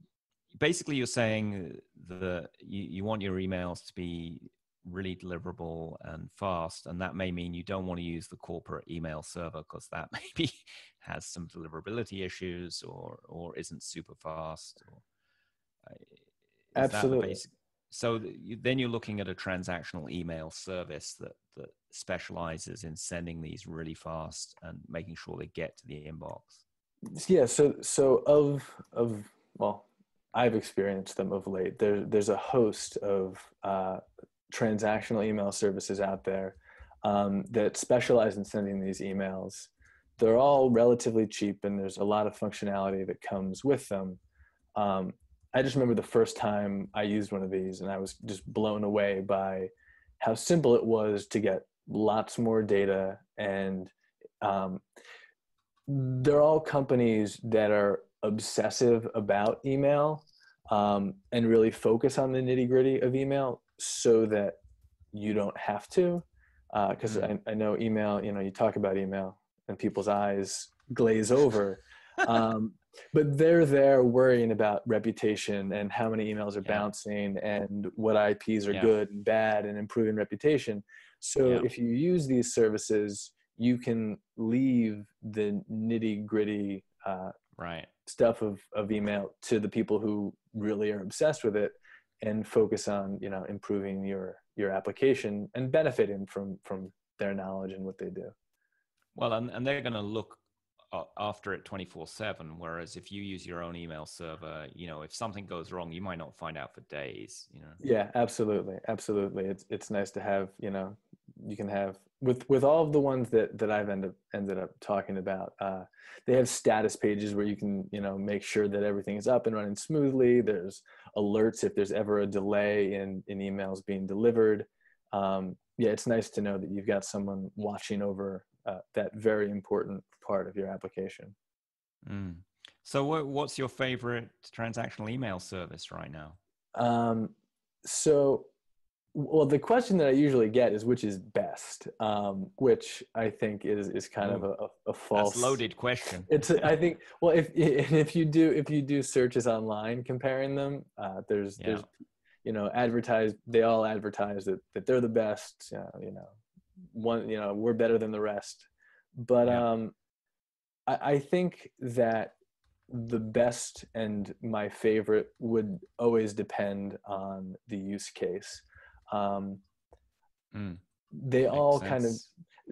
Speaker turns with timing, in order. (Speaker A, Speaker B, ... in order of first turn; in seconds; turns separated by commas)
Speaker A: 0.5-15.0, Speaker A: 15.8-16.2, Speaker B: 16.8-17.4, Speaker A: 16.8-26.6, Speaker B: 27.1-44.2, Speaker B: 44.8-54.8, Speaker B: 55.9-64.6, Speaker B: 65.1-87.3, Speaker A: 67.1-67.3, Speaker A: 76.6-76.9, Speaker A: 81.4-81.7, Speaker A: 87.5-87.9, Speaker B: 88.0-98.3, Speaker A: 99.1-107.8, Speaker B: 107.8-131.3, Speaker A: 132.0-136.4, Speaker B: 136.7-138.5, Speaker B: 139.1-145.6, Speaker A: 144.2-144.5, Speaker A: 145.1-146.7, Speaker B: 146.3-151.9, Speaker A: 151.6-151.9, Speaker B: 152.4-156.4, Speaker B: 156.9-159.9, Speaker B: 160.9-162.3, Speaker B: 162.9-169.6, Speaker A: 170.5-170.8, Speaker B: 171.1-172.2, Speaker A: 171.5-172.3